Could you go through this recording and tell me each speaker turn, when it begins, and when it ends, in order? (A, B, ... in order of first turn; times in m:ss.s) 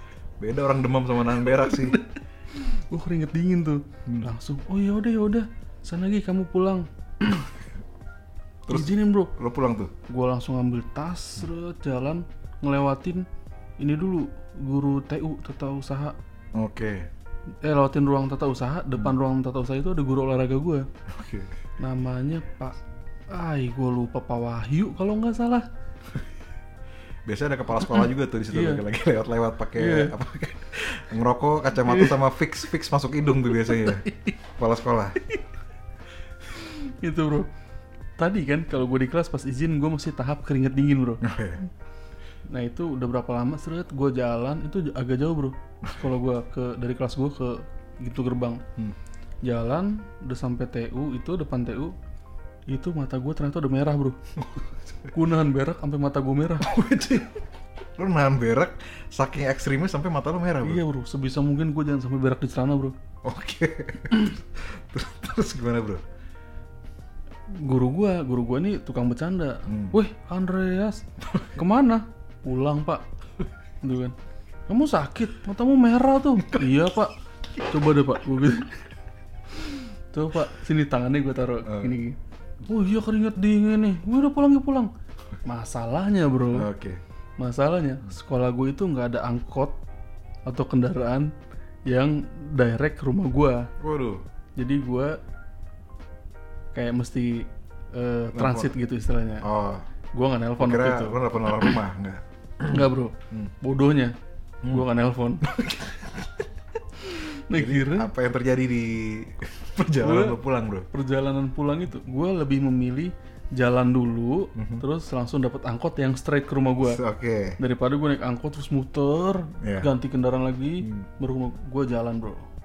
0:00.4-0:02.0 A
0:01.5-0:07.5 B
0:08.7-0:09.9 A
0:08.7-0:09.3 B
0:10.1-0:13.2 B
0:13.8-0:16.2 B
0:16.5-0:17.1 A
0:17.6-0:20.9 B
0:21.1-0:21.5 A
0:21.8-0:22.8 B
0:23.3-0:25.7 B
0:27.2-0:35.2 A
0:28.5-0:28.8 B
0:29.8-0:30.1 B
0:31.8-0:32.2 B
0:33.6-0:34.3 B
0:36.5-0:37.5 B
0:38.2-0:41.2 B
0:41.2-0:41.6 A
0:42.5-0:48.6 B
0:49.4-0:51.9 B
0:52.7-0:54.2 B
0:54.4-0:55.1 A
0:55.1-0:56.7 B
0:56.6-0:57.4 A
0:58.0-1:00.8 A
1:00.6-1:02.9 B
1:03.2-1:06.0 A
1:07.5-1:13.0 B
1:09.7-1:10.0 A
1:13.8-1:14.1 B
1:14.7-1:18.8 B
1:19.5-1:24.9 B
1:21.6-1:22.0 A
1:25.4-1:26.7 B
1:26.5-1:27.0 A
1:27.4-1:29.8 B
1:30.4-1:31.3 B
1:31.8-1:33.7 B
1:33.8-1:34.2 A
1:34.6-1:35.2 B
1:36.7-1:39.4 B
1:38.3-1:38.7 A
1:39.4-1:39.8 A
1:40.1-1:41.7 B
1:40.6-1:43.5 A
1:42.6-1:44.1 B
1:44.6-1:45.5 B
1:45.4-1:46.3 A
1:47.0-1:48.1 B
1:47.5-1:50.9 A
1:50.0-1:50.4 B
1:50.9-1:57.0 B
1:54.6-1:54.8 A
1:56.8-1:57.6 A
1:57.6-2:02.4 B
1:59.6-1:59.9 A
2:00.8-2:01.1 A